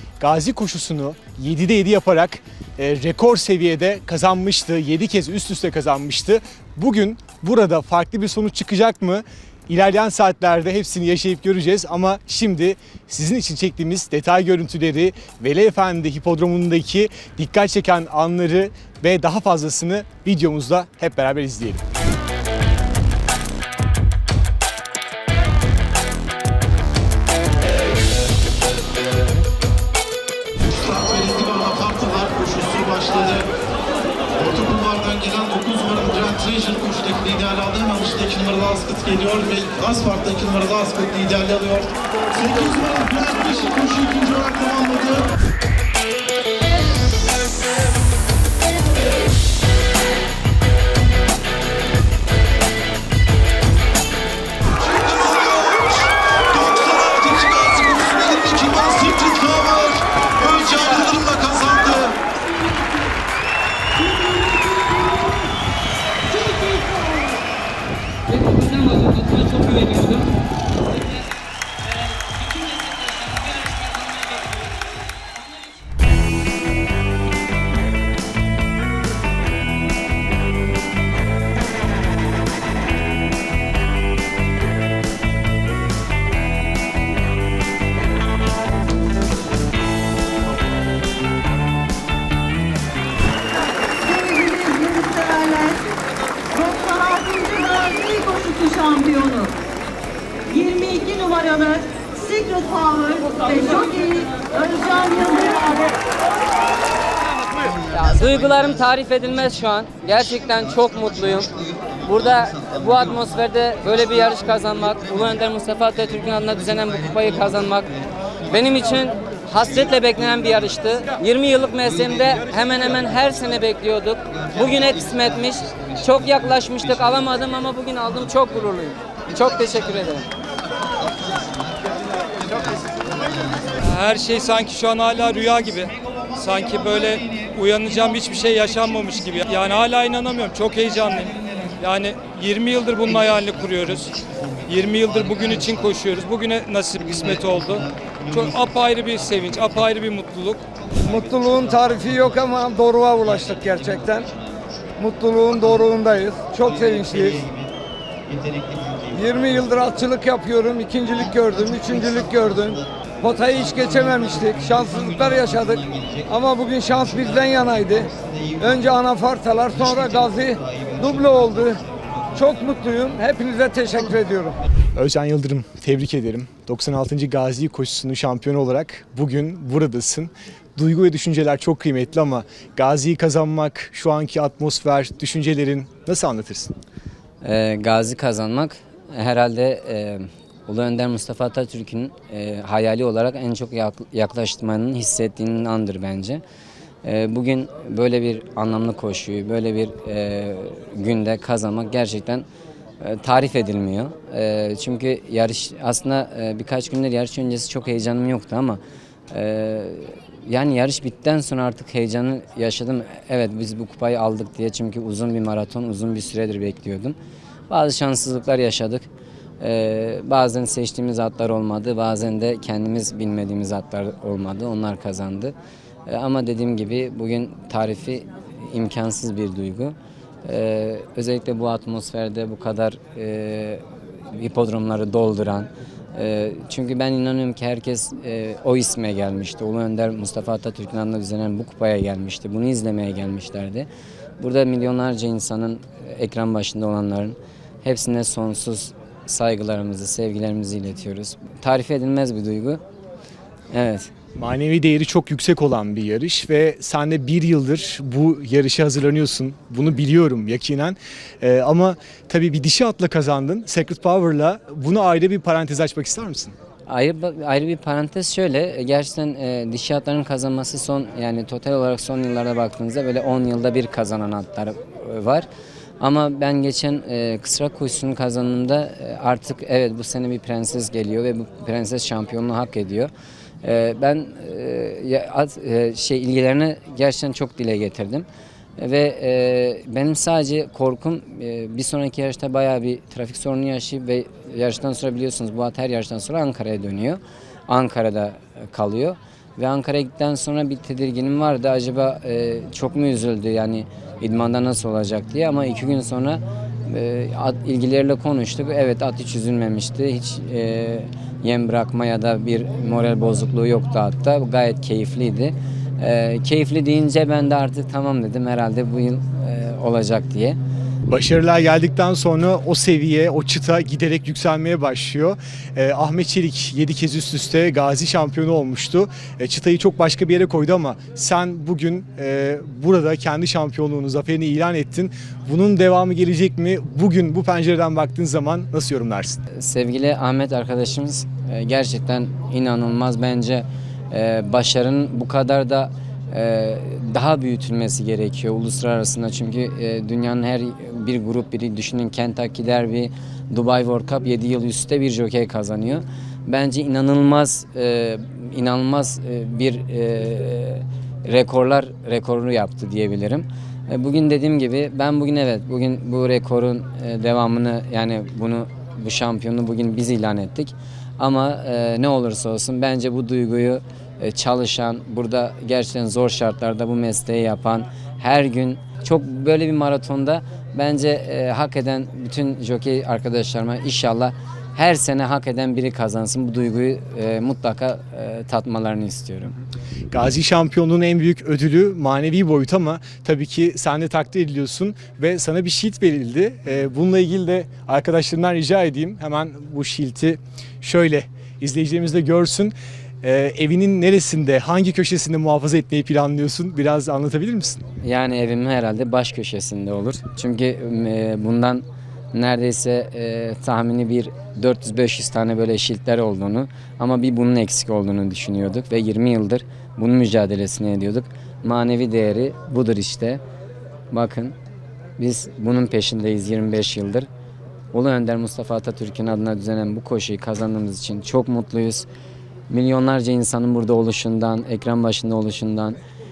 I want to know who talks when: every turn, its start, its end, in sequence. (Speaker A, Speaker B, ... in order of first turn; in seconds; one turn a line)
Speaker A: 0.2-21.8
Speaker B: 30.8-33.5
Speaker B: 34.4-45.3
Speaker B: 54.9-62.2
Speaker C: 62.4-63.0
Speaker C: 64.0-65.5
Speaker C: 66.3-67.4
Speaker D: 68.4-70.1
Speaker C: 94.0-95.9
Speaker C: 96.5-99.6
Speaker C: 100.5-106.0
Speaker D: 107.9-117.9
Speaker D: 118.5-130.3
Speaker E: 133.8-144.1
Speaker E: 144.7-150.6
Speaker F: 151.0-154.3
Speaker F: 155.0-157.5
Speaker F: 159.1-171.8
Speaker F: 172.3-174.6
Speaker A: 174.9-186.7
Speaker D: 187.4-196.4
Speaker D: 197.0-202.4
Speaker D: 203.0-208.8
Speaker D: 209.3-217.2
Speaker D: 217.7-219.1
Speaker D: 219.6-225.5
Speaker D: 226.1-243.9
Speaker D: 244.4-252.8
Speaker D: 253.7-254.1
Speaker A: 254.3-266.5
Speaker D: 266.9-275.5
Speaker D: 276.0-283.1
Speaker D: 283.6-288.2
Speaker D: 288.8-320.6
Speaker A: 321.1-339.4
Speaker D: 339.5-389.6
Speaker A: 390.1-407.8
Speaker D: 408.0-423.4
Speaker D: 424.1-424.6
Speaker D: 425.2-427.3
Speaker D: 427.9-432.1
Speaker D: 432.7-436.0